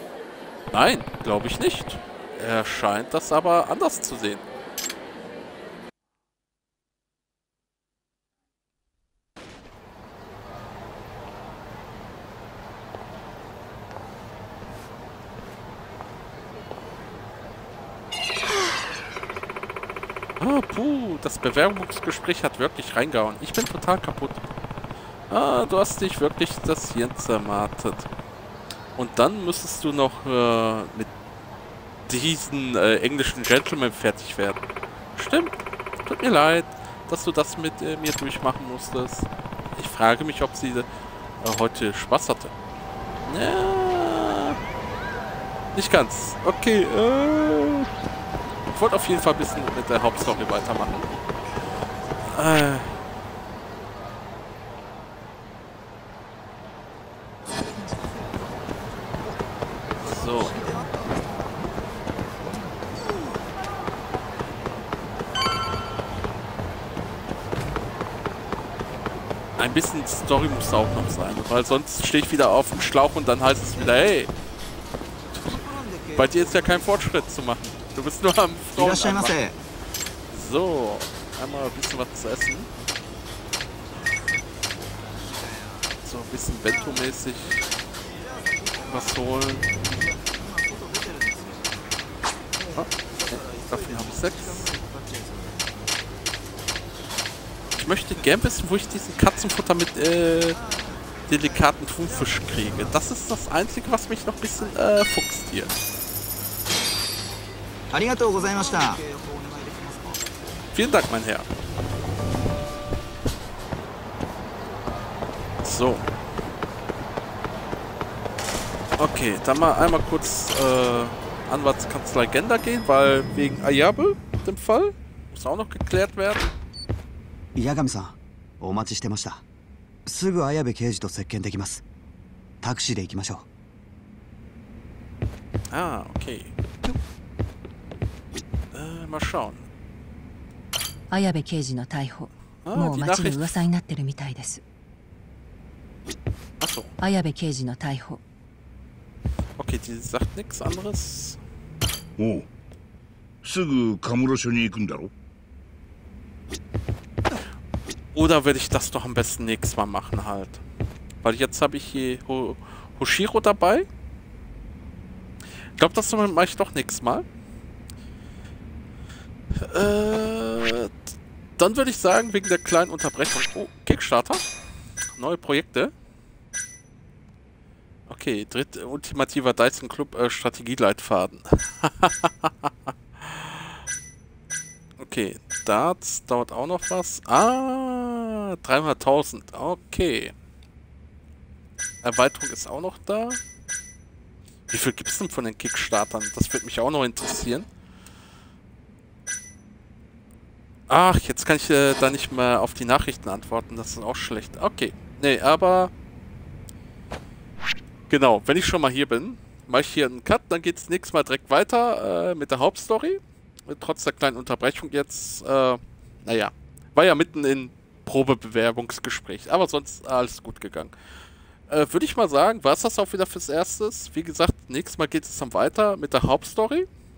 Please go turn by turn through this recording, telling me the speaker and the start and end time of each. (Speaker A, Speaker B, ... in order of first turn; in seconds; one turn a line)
Speaker A: 0.7-4.4
Speaker A: 20.4-24.4
Speaker A: 25.3-28.1
Speaker A: 28.9-31.1
Speaker A: 32.1-34.6
Speaker A: 35.1-40.9
Speaker A: 41.4-42.5
Speaker A: 43.3-44.6
Speaker A: 45.7-47.9
Speaker A: 48.7-51.1
Speaker A: 52.3-53.0
Speaker A: 60.0-60.7
Speaker A: 69.6-74.3
Speaker A: 76.1-79.3
Speaker B: 78.8-79.6
Speaker A: 80.3-82.7
Speaker A: 86.0-87.6
Speaker A: 88.8-89.7
Speaker A: 92.7-94.7
Speaker A: 97.7-100.6
Speaker A: 101.3-105.7
Speaker B: 107.9-110.2
Speaker A: 110.7-111.5
Speaker A: 115.6-116.0
Speaker A: 119.0-126.5
Speaker B: 127.5-129.4
Speaker B: 130.1-131.8
Speaker B: 132.6-133.4
Speaker A: 135.7-136.5
Speaker A: 138.7-139.7
Speaker C: 141.1-144.6
Speaker A: 142.6-143.6
Speaker A: 146.6-146.9
Speaker C: 147.0-148.2
Speaker A: 149.6-151.4
Speaker D: 152.2-152.5
Speaker D: 153.4-155.1
Speaker A: 158.1-160.6
Speaker A: 161.2-163.9
Speaker A: 165.8-167.2
Speaker A: 169.5-170.9
Speaker A: 171.6-174.4
Speaker A: 175.1-175.9
Speaker A: 178.1-183.7
Speaker A: 185.0-190.3
Speaker A: 192.0-193.4
Speaker A: 194.7-197.7
Speaker A: 200.9-205.9
Speaker A: 208.1-220.9
Speaker A: 221.7-226.9